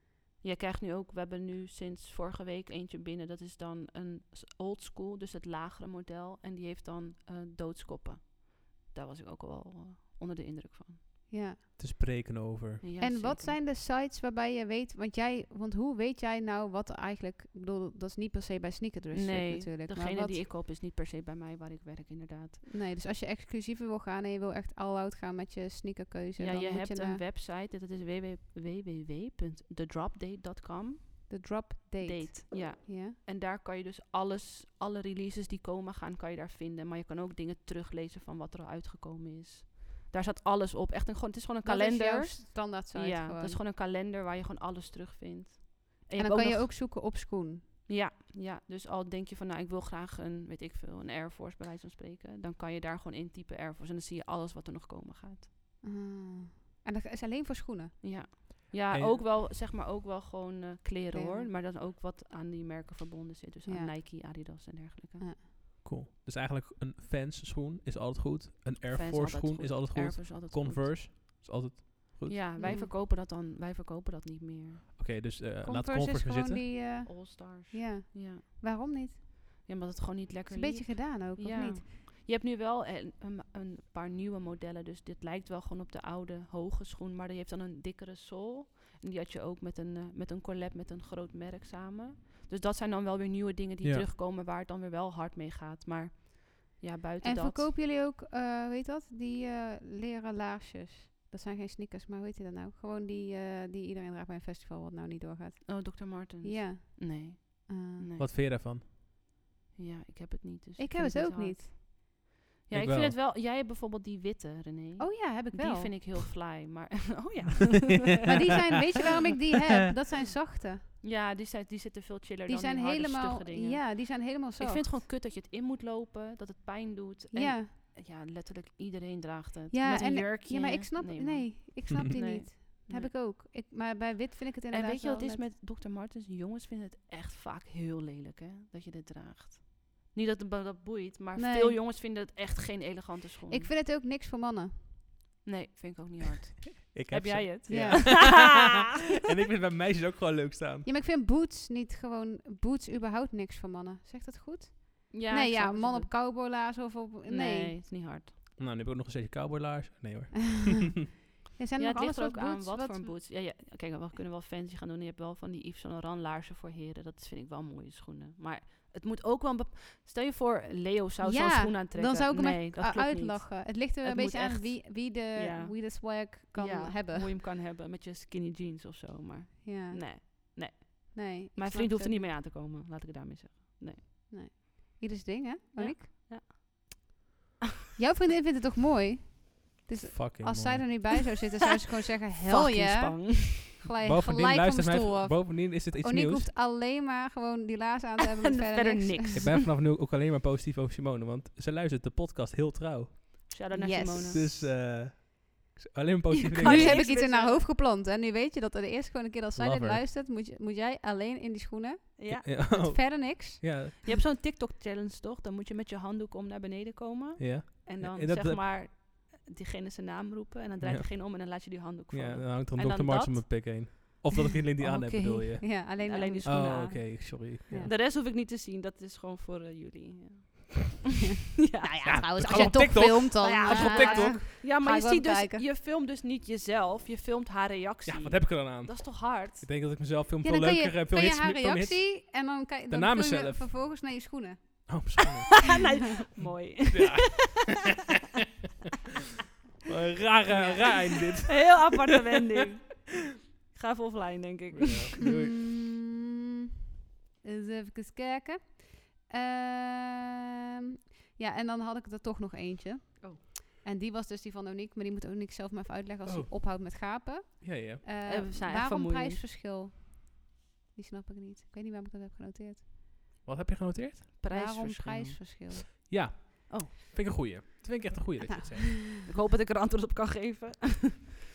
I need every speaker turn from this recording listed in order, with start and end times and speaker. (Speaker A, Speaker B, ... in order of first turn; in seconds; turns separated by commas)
Speaker A: 0.4-11.0, Speaker B: 11.3-11.6, Speaker C: 11.8-12.8, Speaker A: 12.8-13.6, Speaker B: 13.0-20.4, Speaker A: 19.1-22.6, Speaker B: 22.7-27.2, Speaker A: 26.4-31.4, Speaker B: 31.3-33.2, Speaker A: 32.0-46.7, Speaker B: 41.6-43.6, Speaker B: 46.2-47.6, Speaker A: 47.9-55.5, Speaker B: 55.8-58.0, Speaker A: 58.0-65.3, Speaker C: 58.9-59.2, Speaker B: 61.1-61.5, Speaker B: 63.7-63.9, Speaker C: 65.8-72.8, Speaker A: 68.9-71.0, Speaker A: 72.2-74.9, Speaker B: 72.6-72.9, Speaker C: 75.0-76.7, Speaker B: 75.6-79.6, Speaker A: 77.0-78.4, Speaker A: 79.6-97.7, Speaker B: 80.5-81.8, Speaker B: 97.2-108.1, Speaker A: 105.6-108.3, Speaker C: 108.2-108.8, Speaker A: 109.8-111.8, Speaker B: 110.8-111.7, Speaker A: 112.7-118.8, Speaker C: 112.7-113.2, Speaker B: 115.0-116.1, Speaker B: 118.2-120.8, Speaker A: 121.0-133.1, Speaker B: 122.5-125.0, Speaker B: 127.3-127.7, Speaker B: 129.7-135.4, Speaker A: 134.7-143.7, Speaker B: 141.3-141.8, Speaker B: 143.5-144.9, Speaker A: 145.4-148.7, Speaker C: 146.8-150.9, Speaker B: 147.7-148.6, Speaker B: 150.8-157.7, Speaker A: 155.1-156.1, Speaker A: 157.2-158.3, Speaker C: 158.6-161.0, Speaker B: 161.6-163.1, Speaker A: 161.8-184.0, Speaker B: 171.2-177.3, Speaker B: 179.6-180.6, Speaker B: 181.1-182.3, Speaker B: 184.3-186.1, Speaker A: 185.8-187.0, Speaker B: 188.0-199.4, Speaker C: 190.1-191.1, Speaker A: 192.4-193.7, Speaker C: 194.0-196.5, Speaker A: 198.2-199.6, Speaker C: 199.3-203.5, Speaker A: 203.5-204.7, Speaker B: 203.7-204.6, Speaker C: 204.3-207.0, Speaker A: 206.3-207.7, Speaker B: 206.6-213.6, Speaker C: 209.6-210.0, Speaker A: 212.2-212.9, Speaker C: 212.3-214.0, Speaker A: 214.0-224.2, Speaker C: 217.4-218.6, Speaker C: 220.8-227.9, Speaker A: 224.8-231.0, Speaker B: 225.6-227.9, Speaker A: 231.6-239.7, Speaker B: 231.8-235.6, Speaker C: 232.0-234.4, Speaker C: 238.1-242.2, Speaker B: 240.4-245.1, Speaker C: 242.9-243.7, Speaker C: 244.9-245.8, Speaker A: 245.6-247.5, Speaker C: 246.4-247.8, Speaker C: 249.8-252.1, Speaker A: 250.5-250.9, Speaker B: 250.5-250.9, Speaker A: 251.4-253.1, Speaker A: 253.7-255.2, Speaker C: 254.7-255.7, Speaker B: 255.2-256.2, Speaker B: 257.4-260.4, Speaker B: 261.3-270.4, Speaker C: 266.2-267.0, Speaker C: 267.6-268.0, Speaker A: 268.2-269.4, Speaker B: 270.9-272.8, Speaker C: 273.4-274.3, Speaker A: 274.4-276.1, Speaker B: 274.5-275.9, Speaker C: 276.0-279.1, Speaker B: 278.5-279.2, Speaker A: 279.2-281.3